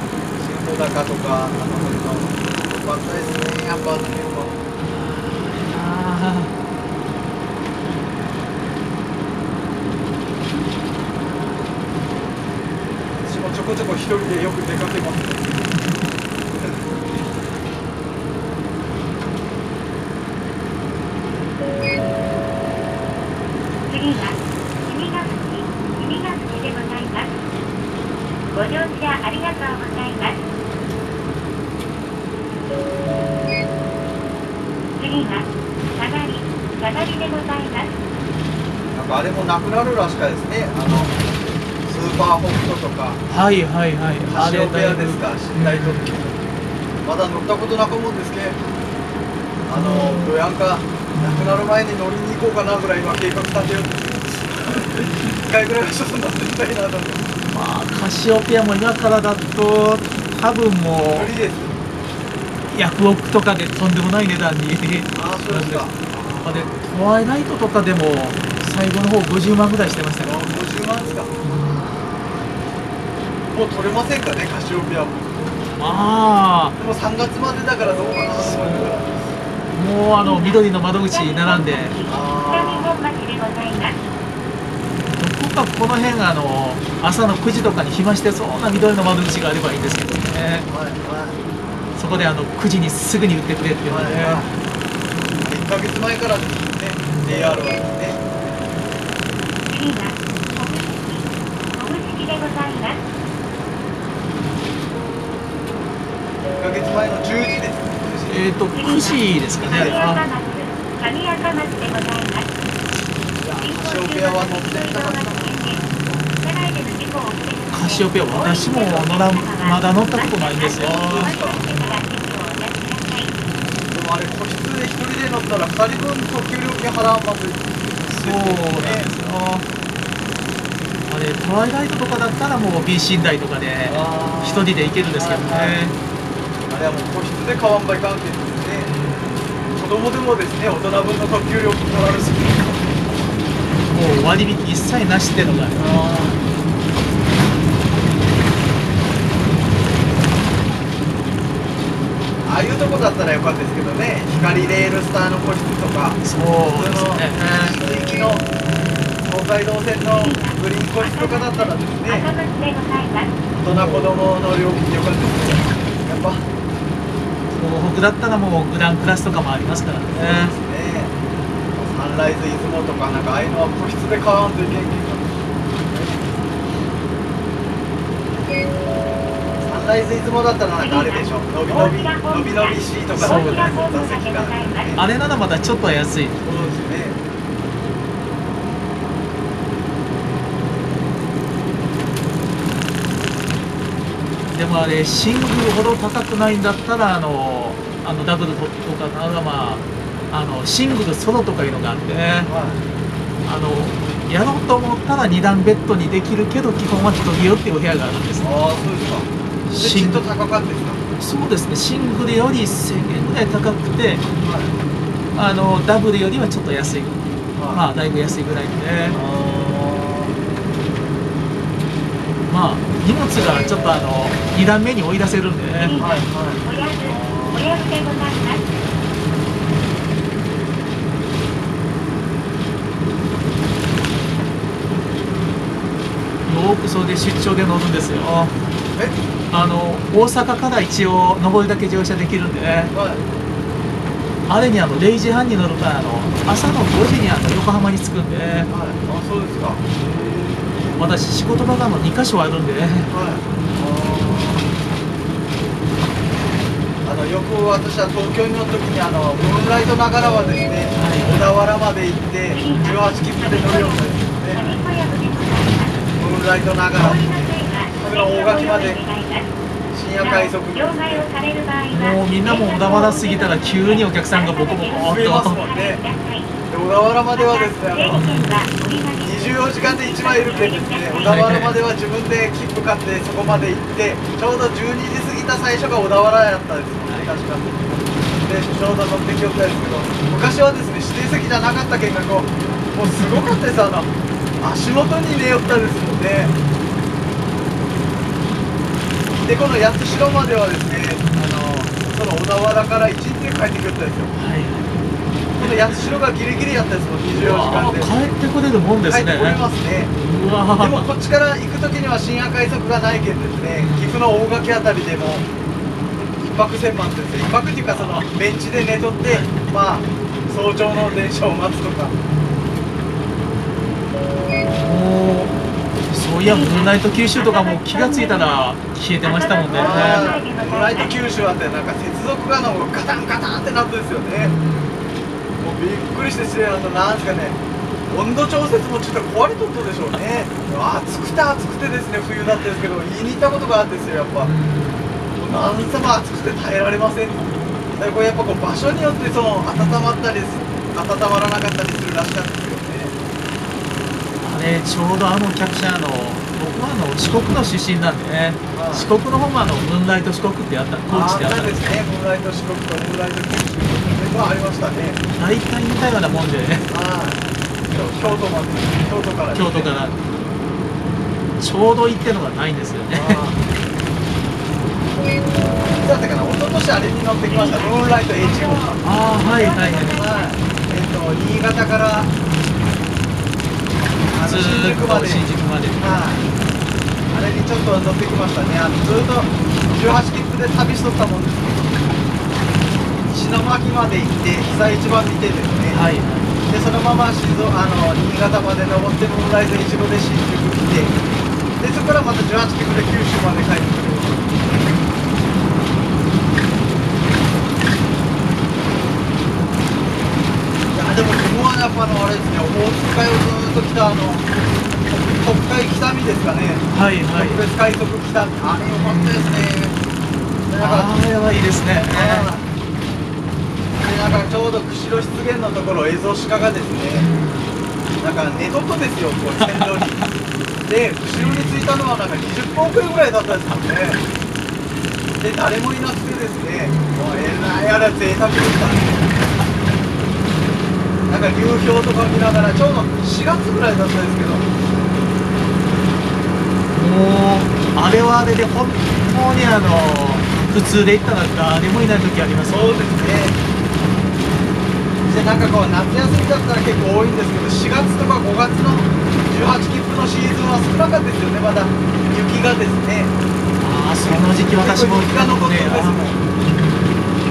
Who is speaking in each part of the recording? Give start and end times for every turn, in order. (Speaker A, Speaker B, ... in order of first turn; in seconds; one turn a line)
Speaker A: 0.3-4.6
Speaker B: 4.9-6.5
Speaker A: 13.2-15.6
Speaker C: 23.9-27.4
Speaker C: 28.5-30.4
Speaker C: 35.0-38.0
Speaker A: 38.9-41.2
Speaker B: 40.9-41.2
Speaker A: 41.9-43.2
Speaker B: 43.3-46.2
Speaker A: 44.3-46.4
Speaker A: 47.0-48.6
Speaker A: 49.7-57.3
Speaker B: 49.8-50.4
Speaker B: 51.1-51.6
Speaker B: 57.5-61.3
Speaker A: 61.1-61.8
Speaker B: 62.7-70.5
Speaker A: 65.2-66.8
Speaker A: 70.2-71.4
Speaker A: 73.5-75.5
Speaker B: 75.7-76.8
Speaker A: 76.8-79.2
Speaker B: 78.4-78.9
Speaker B: 79.7-82.0
Speaker C: 80.2-84.0
Speaker A: 82.1-82.9
Speaker B: 85.1-90.7
Speaker A: 90.7-91.4
Speaker B: 92.0-94.5
Speaker A: 93.9-94.5
Speaker A: 95.4-98.2
Speaker B: 97.0-97.3
Speaker C: 99.7-103.0
Speaker A: 106.6-108.5
Speaker B: 108.3-110.2
Speaker C: 108.7-112.5
Speaker A: 109.6-110.1
Speaker A: 113.4-116.3
Speaker C: 113.6-123.3
Speaker B: 117.7-121.8
Speaker A: 120.7-121.7
Speaker A: 123.9-129.1
Speaker B: 128.1-129.7
Speaker B: 131.1-135.9
Speaker A: 133.9-135.8
Speaker A: 136.7-138.9
Speaker B: 138.9-139.4
Speaker A: 139.7-142.8
Speaker B: 143.9-145.9
Speaker A: 145.8-146.4
Speaker A: 152.4-156.2
Speaker B: 156.2-157.8
Speaker A: 156.8-158.5
Speaker B: 158.7-159.2
Speaker A: 159.2-162.3
Speaker C: 160.1-163.3
Speaker A: 163.6-166.5
Speaker B: 163.7-164.2
Speaker B: 167.6-170.5
Speaker A: 170.2-171.1
Speaker A: 171.8-175.3
Speaker A: 175.9-176.2
Speaker A: 179.6-185.0
Speaker C: 180.8-185.0
Speaker B: 183.2-183.8
Speaker B: 185.0-186.5
Speaker A: 186.4-187.2
Speaker B: 194.5-202.5
Speaker A: 202.4-202.8
Speaker B: 203.4-208.5
Speaker A: 208.4-211.0
Speaker B: 209.7-210.2
Speaker B: 211.2-214.2
Speaker A: 214.4-214.8
Speaker B: 215.3-219.2
Speaker A: 217.6-217.8
Speaker A: 219.1-220.4
Speaker B: 222.5-226.0
Speaker C: 225.8-228.6
Speaker A: 225.9-227.9
Speaker B: 236.5-238.5
Speaker B: 239.5-242.9
Speaker A: 242.9-243.2
Speaker B: 244.5-248.7
Speaker A: 248.7-251.0
Speaker B: 250.9-253.1
Speaker A: 253.1-254.7
Speaker A: 257.0-264.8
Speaker B: 261.0-261.5
Speaker C: 262.5-266.0
Speaker A: 266.2-267.2
Speaker B: 267.0-267.4
Speaker C: 267.0-269.5
Speaker A: 267.9-269.0
Speaker A: 269.9-271.3
Speaker C: 270.2-276.5
Speaker B: 271.9-275.6
Speaker A: 275.0-276.0
Speaker A: 276.7-278.2
Speaker C: 277.4-281.4
Speaker B: 278.1-278.6
Speaker A: 279.2-296.5
Speaker B: 281.2-281.8
Speaker B: 287.1-287.3
Speaker B: 293.0-293.6
Speaker A: 299.4-304.3
Speaker B: 301.2-301.7
Speaker B: 304.3-305.0
Speaker A: 305.6-308.1
Speaker B: 305.6-306.2
Speaker B: 307.4-309.6
Speaker A: 309.0-310.1
Speaker B: 310.2-311.1
Speaker A: 310.8-315.4
Speaker B: 313.8-314.2
Speaker A: 316.4-322.1
Speaker B: 317.9-318.4
Speaker B: 319.3-319.7
Speaker B: 324.8-325.6
Speaker B: 326.1-330.4
Speaker C: 326.4-328.7
Speaker C: 329.2-331.2
Speaker A: 329.7-334.5
Speaker B: 334.4-335.0
Speaker A: 335.6-337.6
Speaker A: 338.1-344.5
Speaker B: 344.4-345.1
Speaker A: 345.4-353.1
Speaker B: 354.4-361.9
Speaker A: 358.7-359.1
Speaker A: 361.1-365.2
Speaker B: 365.4-366.9
Speaker A: 366.9-369.9
Speaker B: 369.5-370.2
Speaker B: 371.6-373.4
Speaker A: 373.1-373.6
Speaker A: 375.9-379.0
Speaker C: 377.5-380.6
Speaker B: 379.0-380.2
Speaker A: 379.7-382.3
Speaker A: 384.3-385.4
Speaker B: 384.4-386.3
Speaker A: 386.0-386.4
Speaker A: 387.3-391.9
Speaker A: 393.3-396.1
Speaker B: 395.9-396.5
Speaker A: 396.6-401.1
Speaker A: 401.8-404.4
Speaker A: 410.9-414.5
Speaker A: 415.1-419.9
Speaker B: 416.9-417.6
Speaker B: 419.0-419.8
Speaker A: 420.7-421.1
Speaker B: 420.8-422.5
Speaker A: 422.1-422.7
Speaker A: 423.9-427.3
Speaker B: 427.1-427.7
Speaker A: 428.2-430.2
Speaker B: 429.6-430.3
Speaker A: 430.9-434.2
Speaker B: 431.4-431.8
Speaker A: 435.4-439.3
Speaker B: 436.9-437.3
Speaker A: 441.3-444.6
Speaker B: 446.9-452.9
Speaker A: 452.7-453.6
Speaker A: 455.3-463.3
Speaker B: 463.8-466.3
Speaker A: 464.3-466.4